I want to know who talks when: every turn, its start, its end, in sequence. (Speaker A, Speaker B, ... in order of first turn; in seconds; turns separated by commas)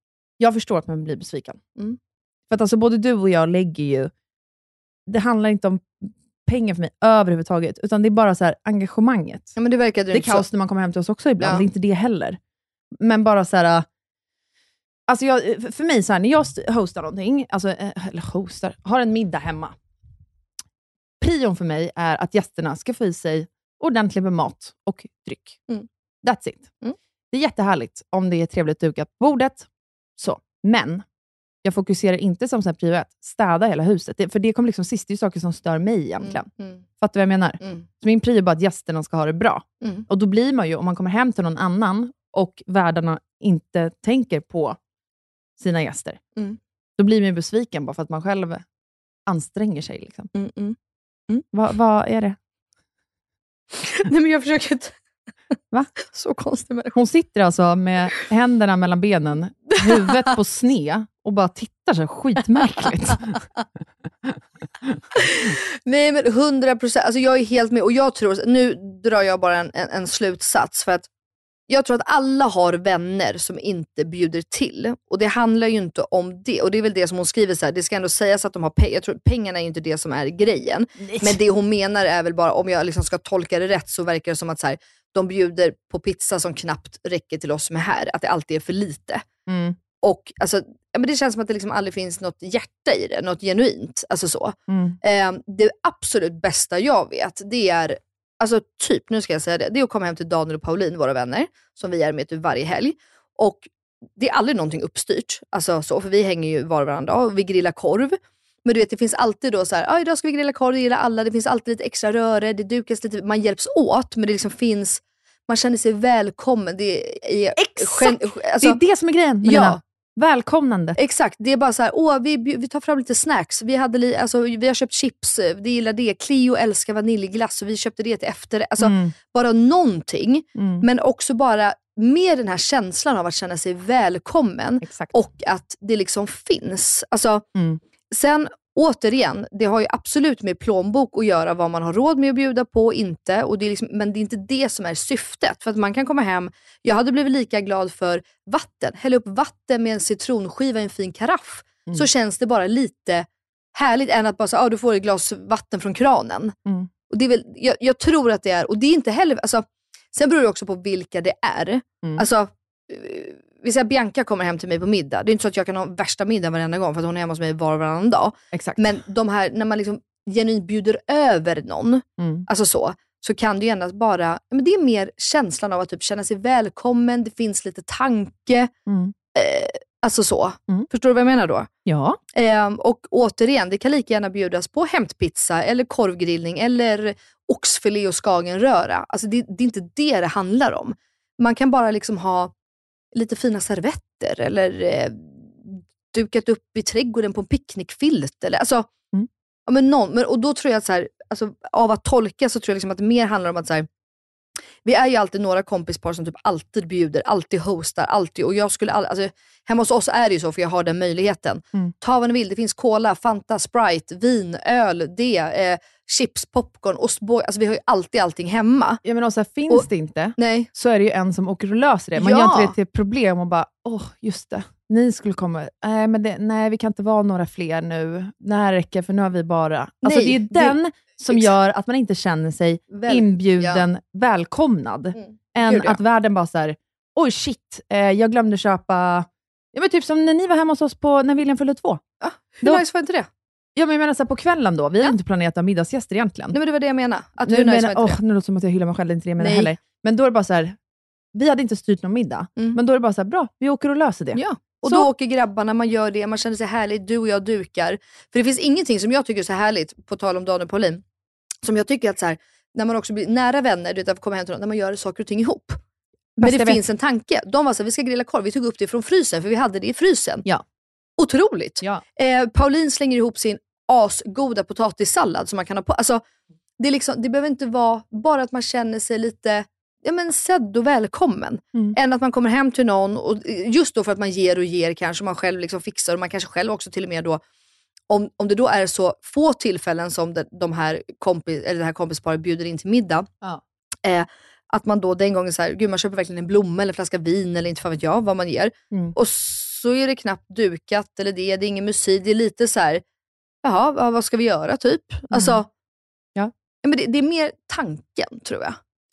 Speaker A: 0.4-1.6, Speaker A: 2.5-4.1, Speaker A: 5.1-9.6, Speaker B: 9.6-10.4, Speaker A: 10.1-12.4, Speaker B: 11.4-11.7, Speaker A: 13.0-13.8, Speaker A: 15.1-19.7, Speaker A: 21.2-25.6, Speaker A: 26.2-26.8, Speaker A: 27.3-31.0, Speaker A: 31.6-36.5, Speaker B: 36.2-36.8, Speaker A: 37.0-44.8, Speaker A: 45.6-46.2, Speaker A: 47.0-48.6, Speaker A: 49.3-50.3, Speaker B: 50.3-50.8, Speaker A: 51.5-52.4, Speaker B: 53.7-54.9, Speaker B: 56.1-56.9, Speaker A: 56.9-63.4, Speaker B: 65.2-71.1, Speaker B: 71.7-89.2, Speaker A: 81.0-81.4, Speaker A: 89.5-89.8, Speaker B: 90.0-118.8, Speaker A: 94.7-95.0, Speaker A: 117.6-121.0, Speaker B: 119.4-119.8, Speaker B: 121.0-137.4, Speaker A: 128.8-129.1, Speaker A: 130.6-130.8, Speaker A: 134.8-135.2, Speaker A: 137.5-137.8, Speaker B: 138.1-156.5, Speaker B: 157.1-178.7, Speaker A: 168.5-168.9, Speaker A: 172.2-172.5, Speaker A: 178.9-179.1, Speaker B: 179.3-181.7, Speaker A: 181.8-182.2, Speaker B: 182.3-192.5, Speaker B: 193.1-198.9, Speaker B: 199.7-203.9, Speaker B: 204.8-219.0, Speaker A: 219.0-242.0, Speaker B: 219.7-220.7, Speaker B: 222.2-222.7, Speaker B: 230.0-230.8, Speaker B: 232.9-233.8, Speaker B: 235.2-236.0, Speaker B: 242.2-243.3, Speaker A: 243.8-246.6, Speaker B: 246.5-248.2, Speaker A: 247.5-250.8, Speaker B: 249.4-249.7, Speaker A: 251.3-255.1, Speaker B: 254.3-261.0, Speaker B: 261.6-265.8, Speaker B: 266.4-270.4, Speaker A: 266.4-266.8, Speaker B: 271.2-276.2, Speaker B: 276.8-287.4, Speaker B: 288.1-293.3, Speaker B: 294.0-303.0, Speaker B: 303.6-305.7, Speaker A: 305.3-305.6, Speaker B: 306.8-308.8